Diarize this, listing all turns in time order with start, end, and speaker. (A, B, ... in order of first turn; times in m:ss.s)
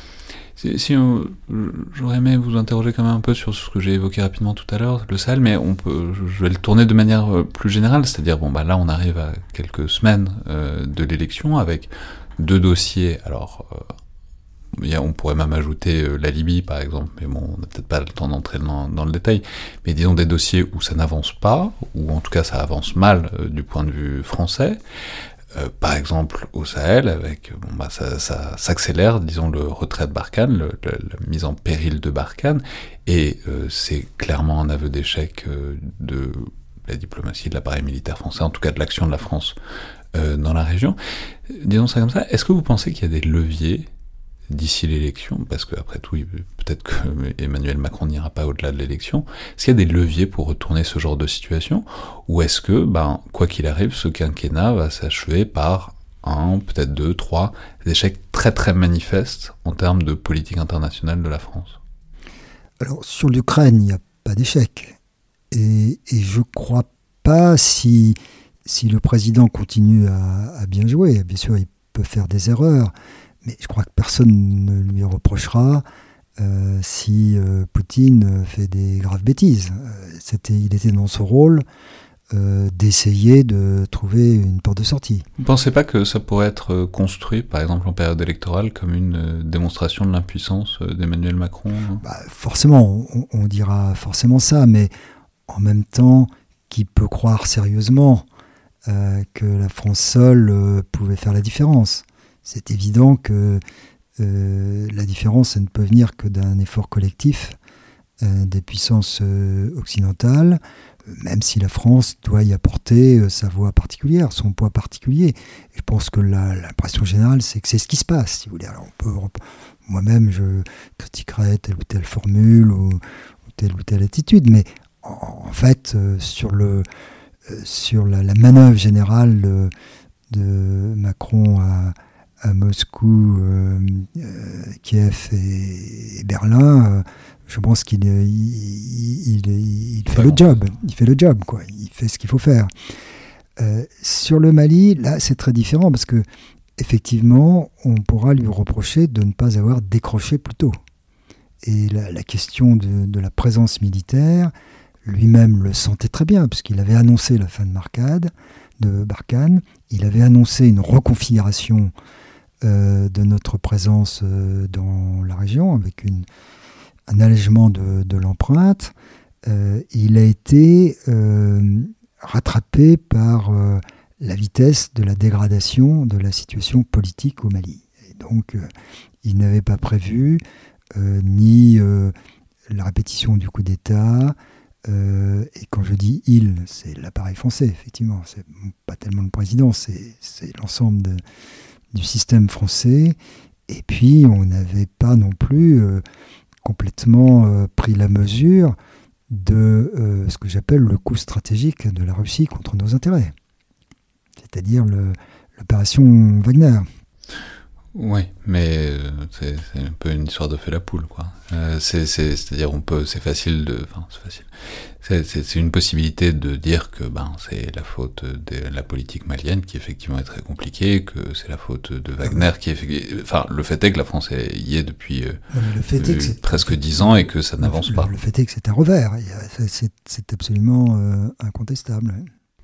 0:00.6-0:13.9 A
0:14.7-0:24.8 A
0:25.5-0:39.6 A
0:40.1-0:43.9 A
0:44.5-1:01.8 A
1:02.8-1:05.0 B
1:05.5-1:15.8 B
1:16.4-1:21.6 B
1:22.3-1:25.2 B
1:25.4-1:32.0 A
1:32.0-1:34.9 B
1:35.5-1:38.2 B
1:38.8-1:43.6 B
1:44.2-1:47.6 B
1:48.2-2:06.8 B
2:07.4-2:09.7 B
2:10.3-2:22.7 B
2:20.1-2:20.5 A
2:23.6-2:26.2 B
2:26.8-2:30.8 B
2:31.6-2:34.5 B
2:35.0-2:41.9 B
2:42.6-2:46.2 B
2:47.1-2:48.9 B
2:49.4-2:58.7 B
2:59.2-3:00.4 B
3:00.9-3:02.1 B
3:02.7-3:11.2 B
3:11.9-3:13.2 B
3:13.7-3:16.0 B
3:16.6-3:18.8 B
3:19.3-3:23.3 B
3:24.4-3:26.8 B
3:27.9-3:45.4 A
3:45.5-3:52.3 B
3:46.0-3:48.1 A